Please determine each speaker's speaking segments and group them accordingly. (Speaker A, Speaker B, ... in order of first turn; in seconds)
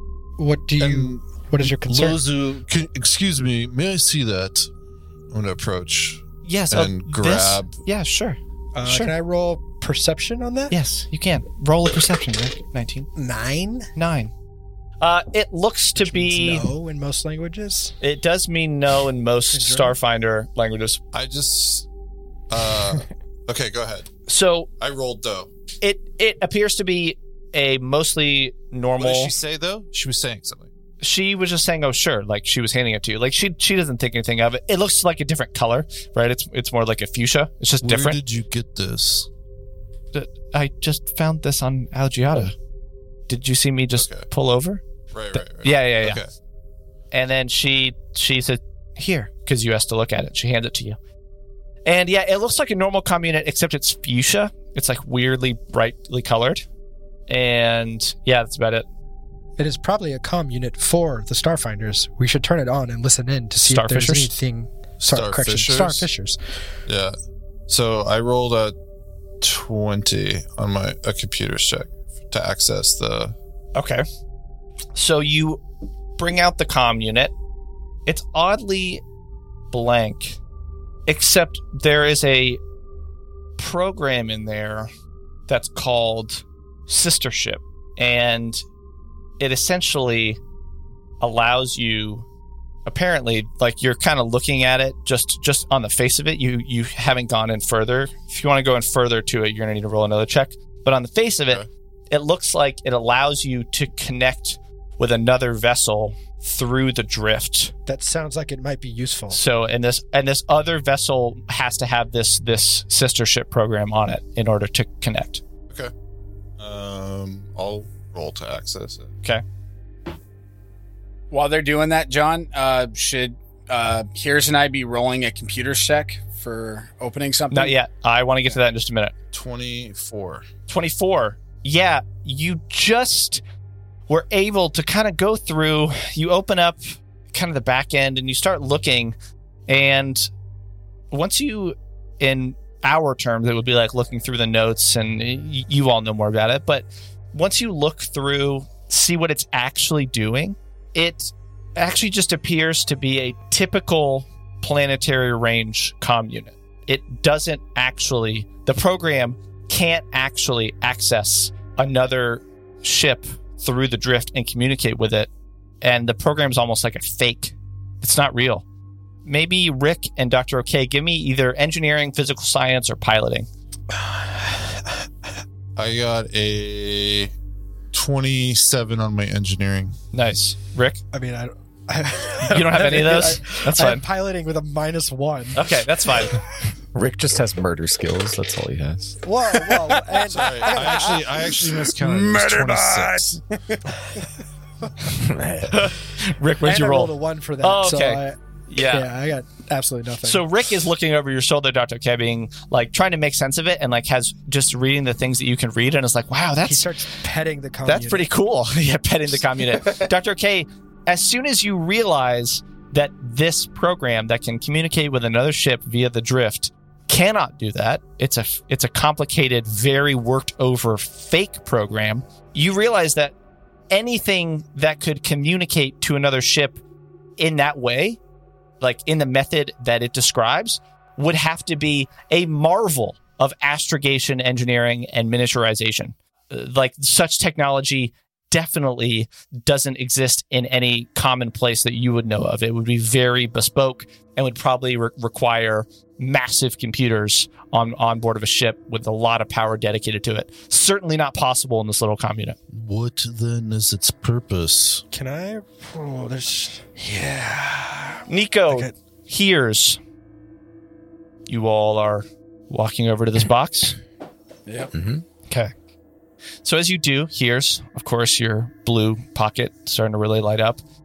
Speaker A: 0.4-2.2, 8.7-10.8, 13.2-13.9, 15.9-18.0, 19.5-20.0, 59.6-66.4, 107.9-109.4, 181.1-185.7, 189.2-191.2, 196.6-200.5, 206.6-208.3, 255.1-258.9
Speaker B: 0.8-4.7, 37.8-39.3, 252.7-255.0
Speaker C: 5.3-7.8, 21.1-21.9, 22.5-24.1, 24.8-25.5, 29.0-30.7, 44.0-44.3, 45.1-46.3, 65.0-66.1, 66.9-67.2, 67.7-68.8, 69.4-73.4, 116.6-119.1, 129.3-130.5, 175.8-177.3, 177.9-180.0, 190.3-193.4
Speaker D: 6.4-9.1, 10.7-13.1, 14.0-14.3, 15.0-16.7, 18.0-21.0, 24.3-24.7, 25.8-29.4, 31.0-38.2, 40.1-42.5, 43.3-44.8, 45.3-46.2, 47.1-51.0, 51.9-56.6, 57.3-58.9, 63.6-64.3, 73.8-74.0, 75.0-75.6, 76.2-77.3, 78.1-79.0, 79.7-80.4, 81.1-82.6, 83.6-84.9, 85.5-88.6, 89.4-90.4, 91.2-92.3, 92.9-107.7, 109.3-115.4, 127.5-129.1, 130.7-133.4, 134.1-139.2, 139.7-140.3, 141.1-165.3, 165.8-168.7, 169.2-173.5, 180.1-181.0, 182.4-184.0, 185.6-186.4, 195.7-199.1, 200.2-206.9, 207.8-223.3, 223.9-226.8, 227.4-228.2, 228.8-252.6, 258.3-260.0, 261.5-264.0, 266.6-270.8
Speaker E: 121.3-127.8, 189.6-193.8
Speaker F: 186.9-189.2, 195.1-195.9, 264.9-265.2